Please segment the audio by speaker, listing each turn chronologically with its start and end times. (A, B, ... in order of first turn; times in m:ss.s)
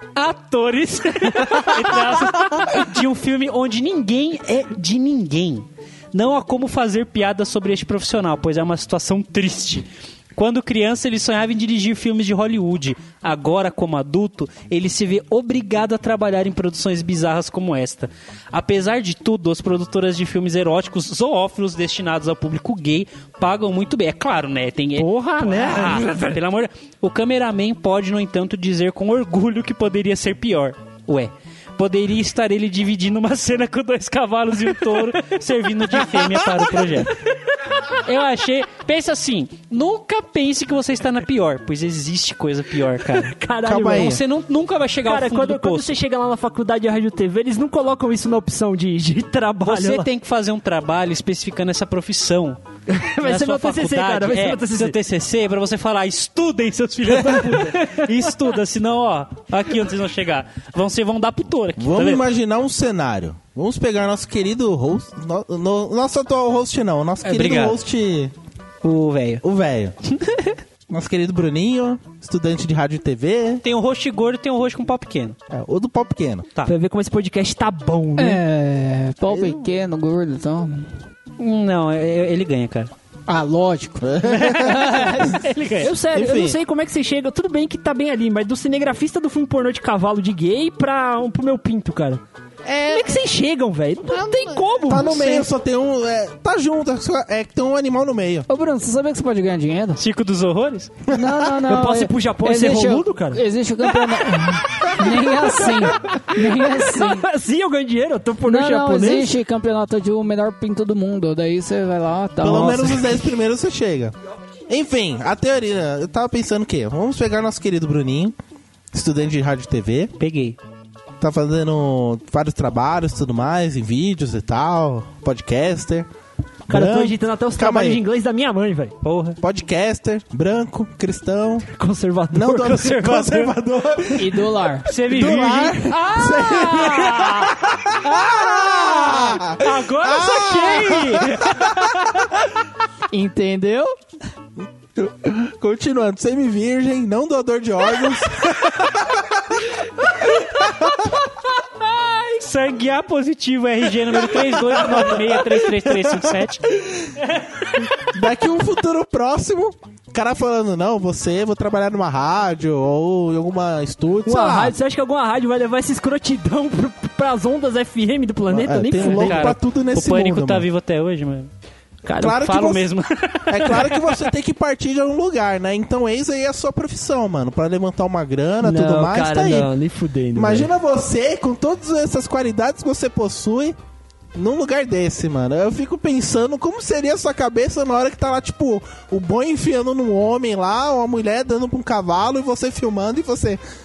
0:00.2-0:37.2 A
0:25.0-0:26.4 B
0:37.9-0:43.3 A
0:43.2-0:44.2 B
0:43.6-0:44.2 C
0:44.0-0:45.9 A
0:45.0-0:50.1 B
0:49.6-0:52.6 A
0:52.9-0:55.0 B
0:53.2-1:02.2 A
0:57.3-0:58.1 B
1:01.8-1:08.3 C
1:07.2-1:07.8 A
1:08.8-1:09.4 A
1:09.4-1:10.0 C
1:10.1-1:10.6 A
1:10.9-1:13.6 C
1:13.6-1:15.4 A
1:15.5-1:16.5 C
1:16.6-1:18.4 B
1:18.2-1:20.9 D
1:21.4-1:22.9 A
1:23.3-1:25.4 D
1:24.0-1:25.3 C
1:24.3-1:25.9 A
1:25.8-1:32.2 B
1:26.1-1:26.6 C
1:32.6-1:33.2 C
1:32.9-1:35.5 B
1:34.1-1:38.5 C
1:38.5-1:40.0 D
1:40.0-1:40.9 A
1:41.1-1:47.3 D
1:41.7-1:43.4 B
1:46.1-1:49.3 B
1:48.4-1:53.2 D
1:52.4-1:54.1 C
1:54.7-1:58.4 C
1:58.9-2:00.1 C
2:00.2-2:00.6 A
2:01.2-2:06.1 C
2:06.7-2:08.0 C
2:06.7-2:08.9 B
2:09.0-2:09.4 A
2:09.4-2:11.7 C
2:11.8-2:12.9 B
2:12.3-2:21.8 C
2:12.7-2:13.6 A
2:14.2-2:14.9 D
2:14.8-2:22.3 A
2:23.1-2:23.9 D
2:24.6-2:29.5 C
2:31.9-2:36.6 A
2:34.7-2:35.2 C
2:36.8-2:37.0 C
2:38.0-2:44.8 C
2:44.2-2:49.5 B
2:48.5-2:50.7 C
2:49.0-2:51.5 A
2:52.0-2:52.4 B
2:52.2-2:52.9 C
2:52.4-2:54.3 A
2:53.5-2:59.7 C
2:58.6-3:00.7 B
3:00.4-3:03.8 C
3:04.4-3:13.6 C